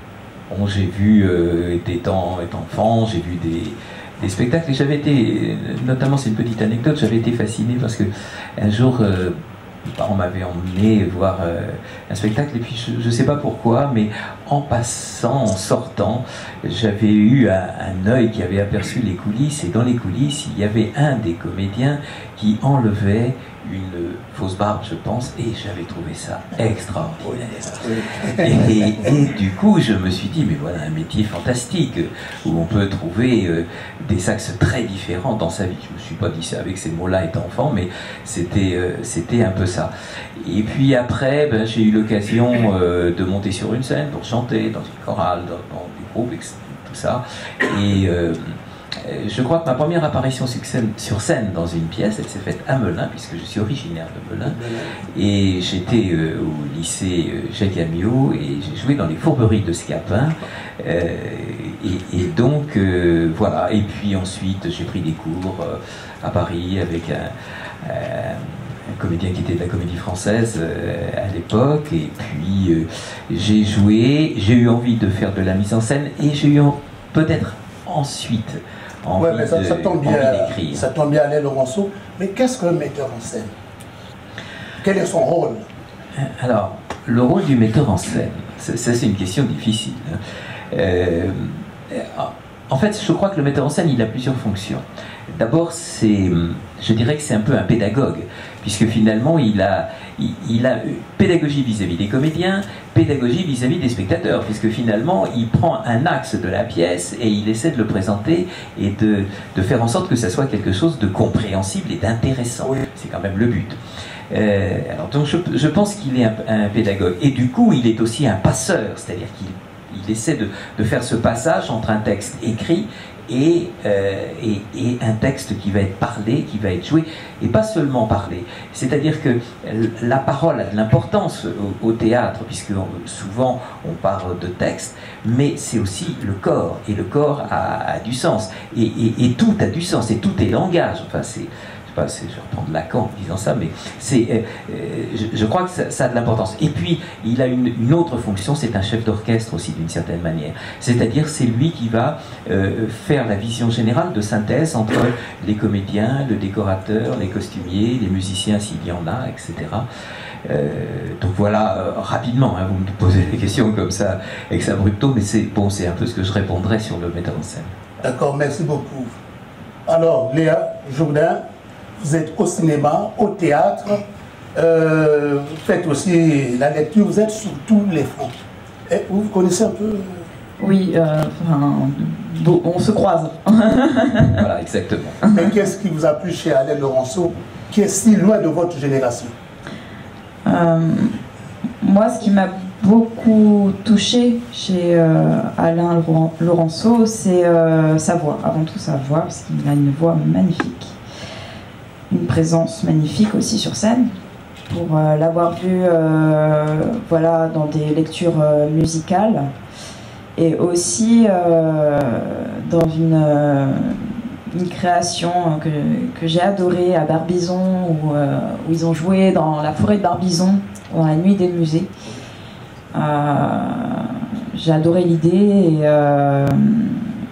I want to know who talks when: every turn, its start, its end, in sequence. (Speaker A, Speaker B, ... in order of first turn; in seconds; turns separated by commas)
Speaker A: 0.5-54.6, Speaker B: 27.3-28.9, Speaker B: 54.5-55.0, Speaker A: 55.1-80.8, Speaker B: 79.2-83.5, Speaker B: 84.8-85.7, Speaker A: 86.2-90.2, Speaker A: 90.7-113.8, Speaker A: 114.3-159.8, Speaker A: 160.4-167.8, Speaker B: 168.0-169.2, Speaker B: 169.9-171.4, Speaker B: 172.0-178.3, Speaker B: 178.9-180.3, Speaker C: 180.6-184.4, Speaker A: 184.3-185.2, Speaker B: 185.3-189.3, Speaker C: 190.5-191.2, Speaker C: 191.8-201.0, Speaker C: 202.1-204.1, Speaker C: 204.7-209.5, Speaker C: 210.4-221.9, Speaker C: 222.9-227.1